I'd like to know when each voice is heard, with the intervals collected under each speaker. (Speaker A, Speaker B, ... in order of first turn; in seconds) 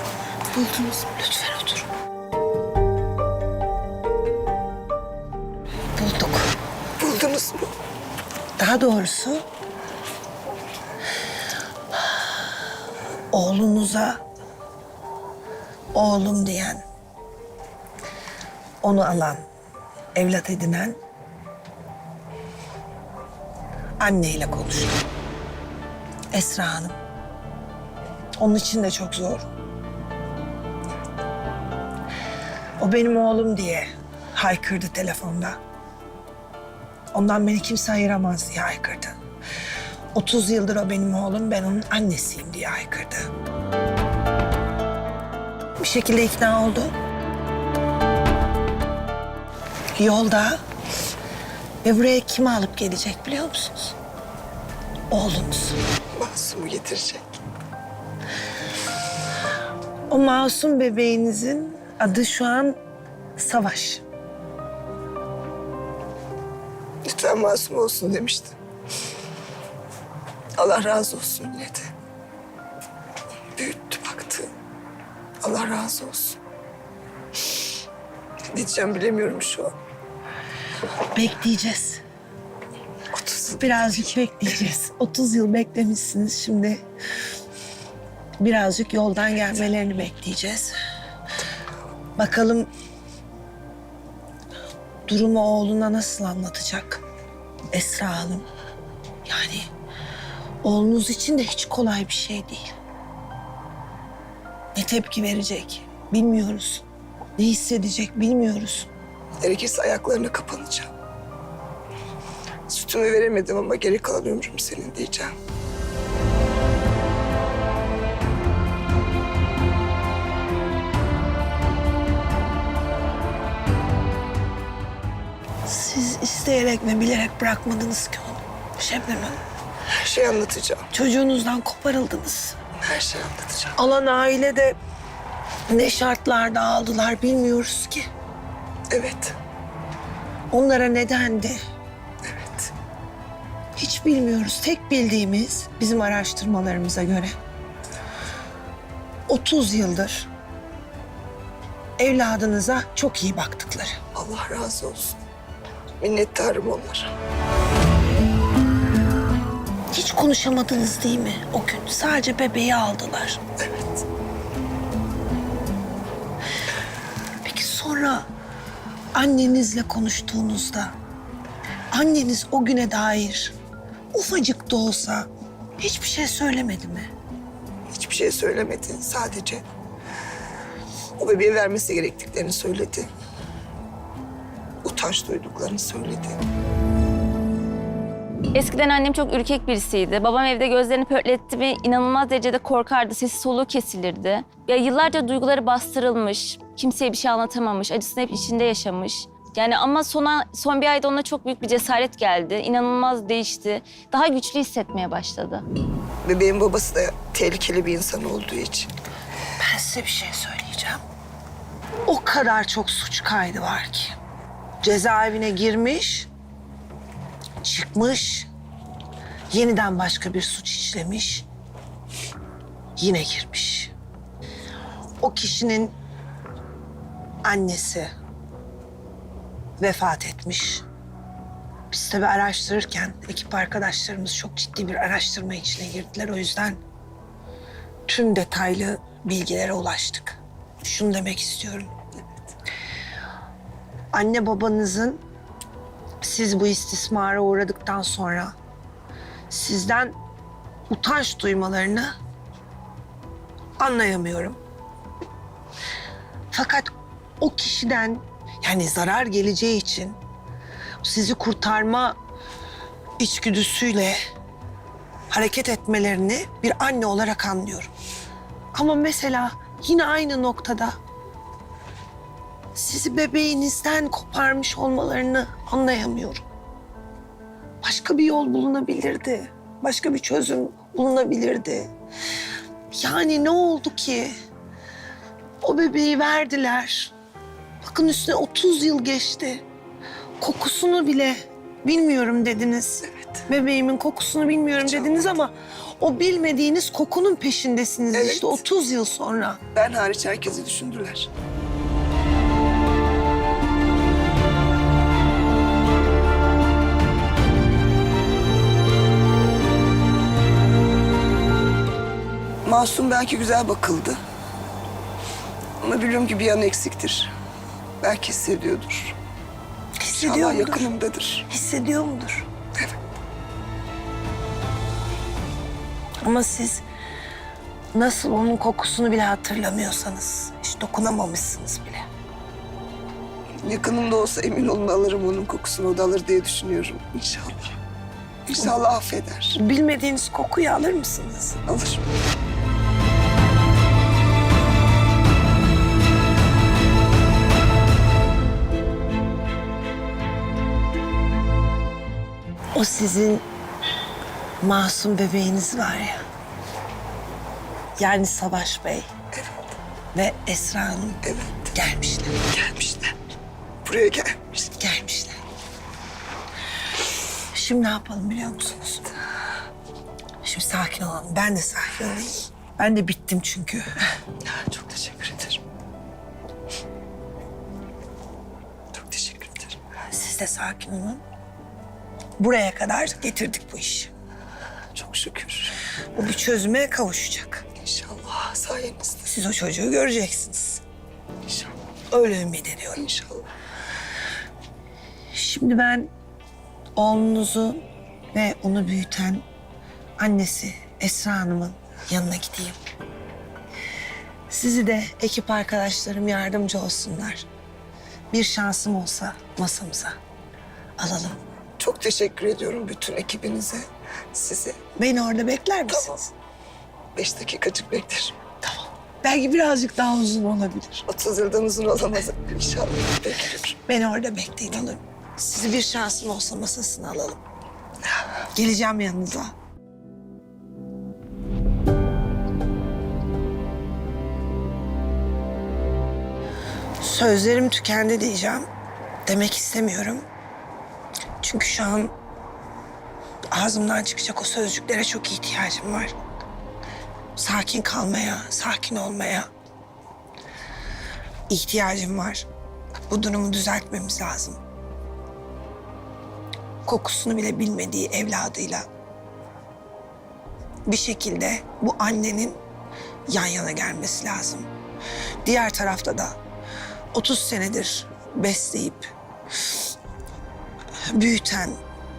Speaker A: 0.5-1.9, 5.9-6.5, 8.6-9.4, 13.3-14.2, 15.9-16.8, 18.8-19.4, 20.1-21.0, 24.0-25.0, 26.3-27.0, 28.4-29.5, 32.8-35.6, 37.1-39.1, 40.1-43.3, 45.8-47.0, 50.0-50.6, 51.8-54.0, 55.1-55.8, 60.1-62.8, 63.4-64.0, 81.1-82.0, 83.6-86.8, 88.4-90.7, 92.2-92.7, 95.1-97.0, 97.7-98.5, 99.2-99.7, 100.6-102.7, 104.7-106.8, 107.4-108.9, 125.6-129.4, 130.9-132.6, 133.8-134.8, 135.7-138.1, 140.5-141.6, 143.8-147.3, 149.3-150.3, 152.0-154.0, 159.9-163.4, 167.4-168.3, 169.1-170.9, 171.9-173.6, 174.1-177.1, 209.6-211.0, 212.1-214.2, 214.8-216.3, 217.6-218.5, 219.5-221.4, 223.0-223.9, 225.2-225.9, 227.4-228.1, 229.8-230.8, 231.9-236.8, 238.1-241.9, 244.1-245.2, 246.2-248.5, 249.5-250.2, 250.9-252.2, 253.8-254.6, 256.5-260.2, 261.0-262.2, 263.2-264.2, 265.3-267.9, 268.7-271.0, 272.7-276.4, 277.8-281.9, 282.9-284.3, 285.6-287.1, 287.8-289.6, 290.4-299.6, 320.0-320.9, 321.5-322.5, 326.2-326.8, 327.9-332.1, 339.6-341.6, 352.7-353.4, 354.6-356.2, 358.0-359.1, 360.1-362.4, 364.8-365.4, 367.5-369.1, 370.4-373.9, 380.1-381.2, 382.4-384.1, 386.1-387.6, 389.2-390.8, 392.1-393.0, 395.3-396.1, 396.9-399.4, 400.2-402.8, 404.5-407.5, 408.3-410.2, 411.0-411.4, 414.9-416.3, 418.6-421.0, 423.9-427.4, 428.5-429.5, 437.0-438.7, 439.2-440.2, 441.4-442.1, 443.5-446.1, 447.4-449.5, 451.5-452.5, 453.1-454.6, 456.8-458.9, 460.9-462.6, 463.3-464.7, 465.4-466.4, 467.1-469.8, 471.1-471.8
Speaker B: 7.0-7.7, 56.1-57.4, 67.0-68.5, 70.6-71.9, 73.5-74.5, 75.4-76.4, 78.5-79.7, 83.1-84.1, 109.4-110.9, 112.7-115.3, 129.9-130.9, 132.8-133.8, 138.9-139.4, 142.3-142.7, 154.1-155.2, 156.0-157.1, 163.7-164.0, 177.9-179.6, 181.2-183.1, 184.8-186.4, 206.2-208.9, 293.1-293.4, 294.8-295.3, 298.1-298.6, 299.7-301.3, 312.6-314.2, 315.8-317.3, 318.0-319.2, 320.1-321.4, 333.6-337.8, 338.4-339.6, 341.6-342.0, 361.2-361.7, 362.5-363.1, 363.8-364.7, 374.4-375.6, 378.9-379.8, 384.9-385.8, 387.8-389.3, 391.4-391.7, 392.9-393.5, 411.8-414.8, 415.9-416.2, 417.1-418.4, 421.1-423.8
Speaker C: 188.5-205.7